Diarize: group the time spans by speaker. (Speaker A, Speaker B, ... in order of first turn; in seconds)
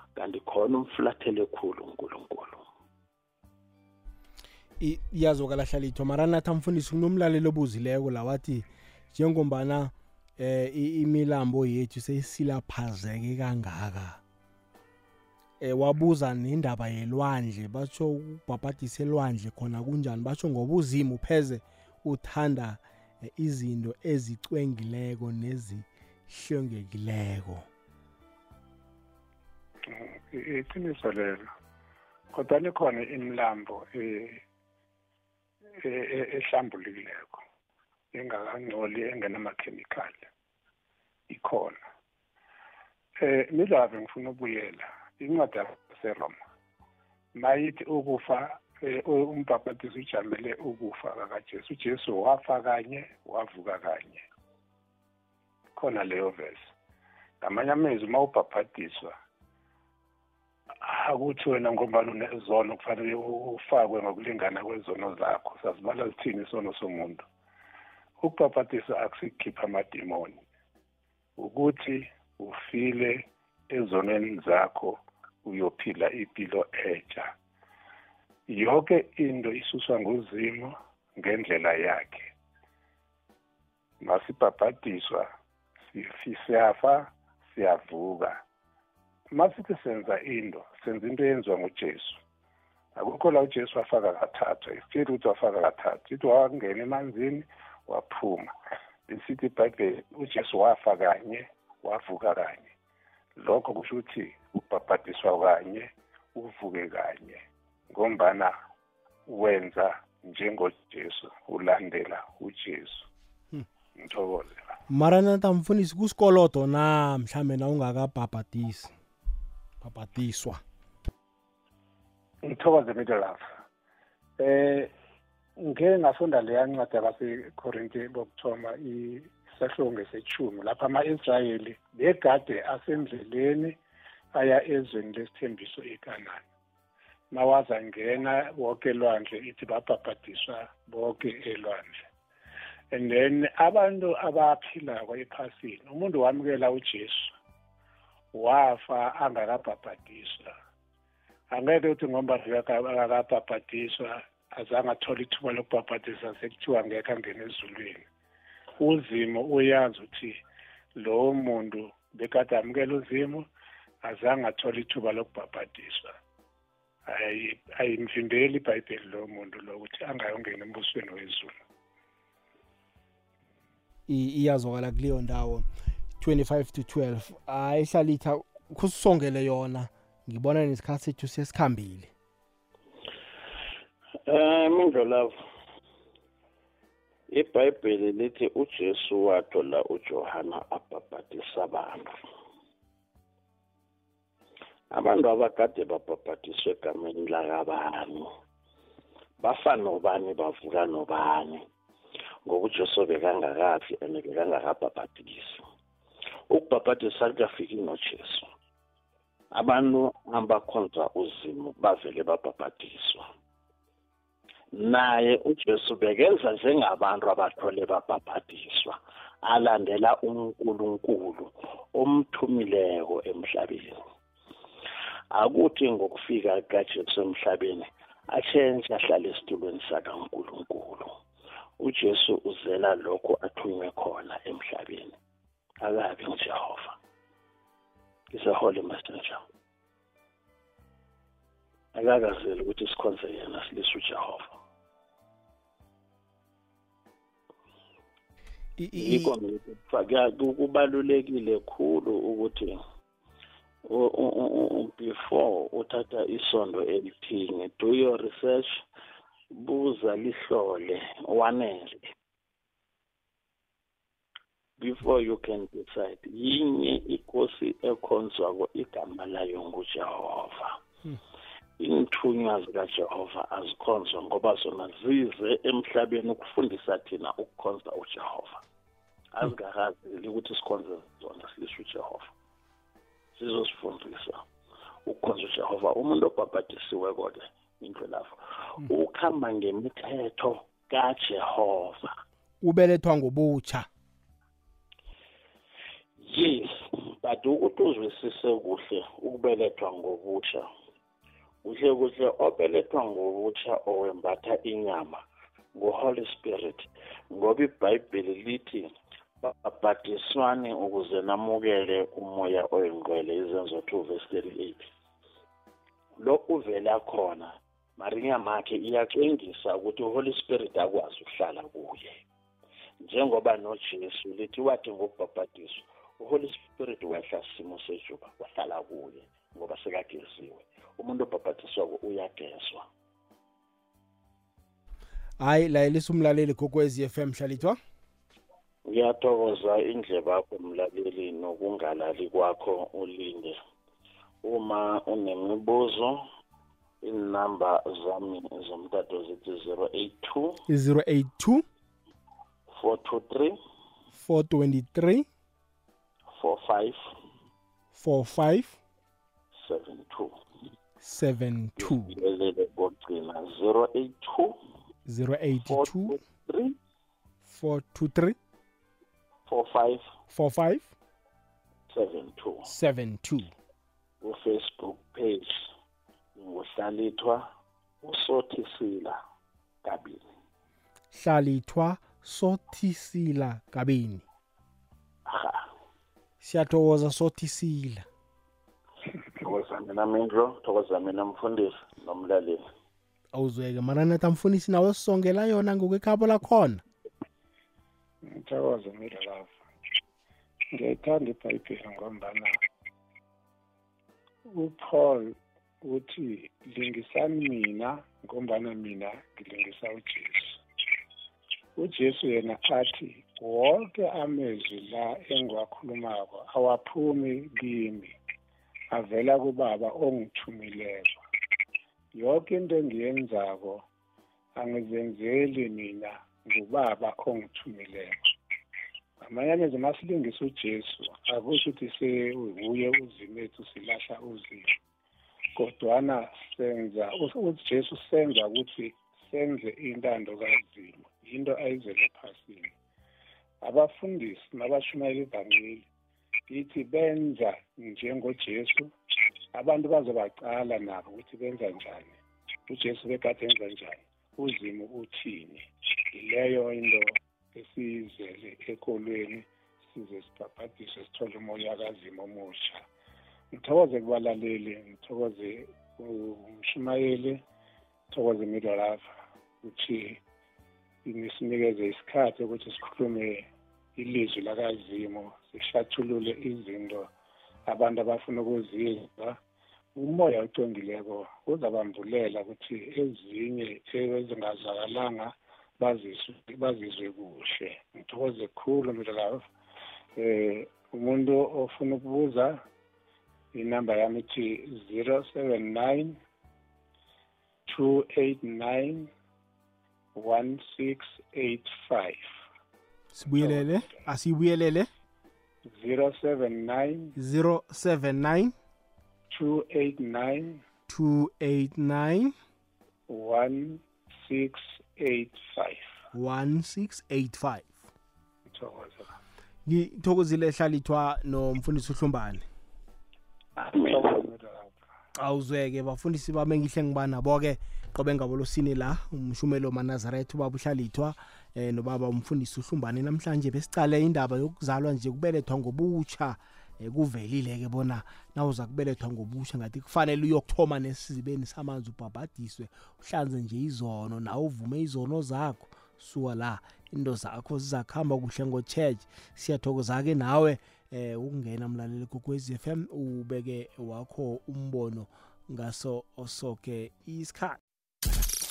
Speaker A: 0.2-2.7, 184.3-185.3, 187.3-192.2, 194.9-198.3, 199.4-201.6, 202.5-205.6, 206.5-208.5, 209.5-213.2, 214.7-224.0, 225.3-231.1, 231.8-235.2, 235.8-237.0, 238.3-239.4, 241.9-244.6, 249.0-252.8, 253.9-258.8, 259.5-262.1, 264.8-270.8, 271.8-278.6, 279.3-282.3, 283.4-284.4, 285.1-292.1, 296.2-300.7, 301.6-305.2, 305.8-308.9, 309.4-314.9, 316.2-322.1, 323.1-332.9, 338.9-343.6, 344.4-346.2, 347.0-350.6, 352.8-353.6, 356.4-357.0, 359.5-360.4, 361.8-364.6, 365.6-366.8, 369.5-370.0, 371.9-372.7, 374.2-375.7, 376.4-377.4, 378.0-379.2, 379.8-380.2, 385.3-385.7, 389.4-392.6, 523.7-524.2
Speaker B: 4.8-14.2, 15.6-27.7, 114.9-118.9, 119.8-120.6, 174.1-175.7, 176.2-182.1, 248.8-249.3, 292.6-293.9, 335.4-337.8, 350.7-351.6, 354.1-355.3, 357.9-358.8, 361.0-362.2, 365.1-366.2, 367.4-368.4, 370.3-370.9, 372.7-373.5, 381.1-384.2, 386.4-388.1, 393.3-396.8, 503.1-504.9, 507.2-508.5, 510.9-512.3, 516.1-517.8, 519.7-522.5, 525.2-557.6
Speaker C: 29.9-31.5, 32.3-34.4, 35.8-37.4, 38.1-40.3, 41.3-41.8, 43.2-46.4, 47.4-54.2, 55.8-56.7, 57.4-59.1, 60.8-67.2, 68.2-70.4, 71.4-77.3, 78.5-82.3, 84.0-85.3, 85.9-88.4, 89.3-92.2, 93.0-98.5, 99.1-102.7, 103.4-108.5, 109.3-113.1, 114.0-114.7, 122.4-123.5, 124.4-124.9, 125.6-133.8, 134.3-136.4, 137.3-142.0, 142.9-147.3, 148.3-150.5, 151.5-158.1, 158.8-160.4, 161.0-163.4, 164.0-166.2, 167.1-171.5, 398.2-399.5, 400.7-402.6, 404.5-410.6, 411.8-418.1, 418.9-421.2, 422.1-423.8, 424.6-428.2, 429.2-434.7, 435.6-442.7, 443.6-445.9, 446.5-448.9, 449.5-462.9, 463.5-467.4, 468.1-469.1, 469.6-470.2, 471.1-477.1, 477.7-479.4, 479.9-489.4, 490.2-492.6, 493.5-496.2, 497.7-499.1, 500.1-502.3, 503.4-503.7, 505.7-507.1, 509.3-510.6, 513.1-515.9, 518.5-519.2, 523.6-524.8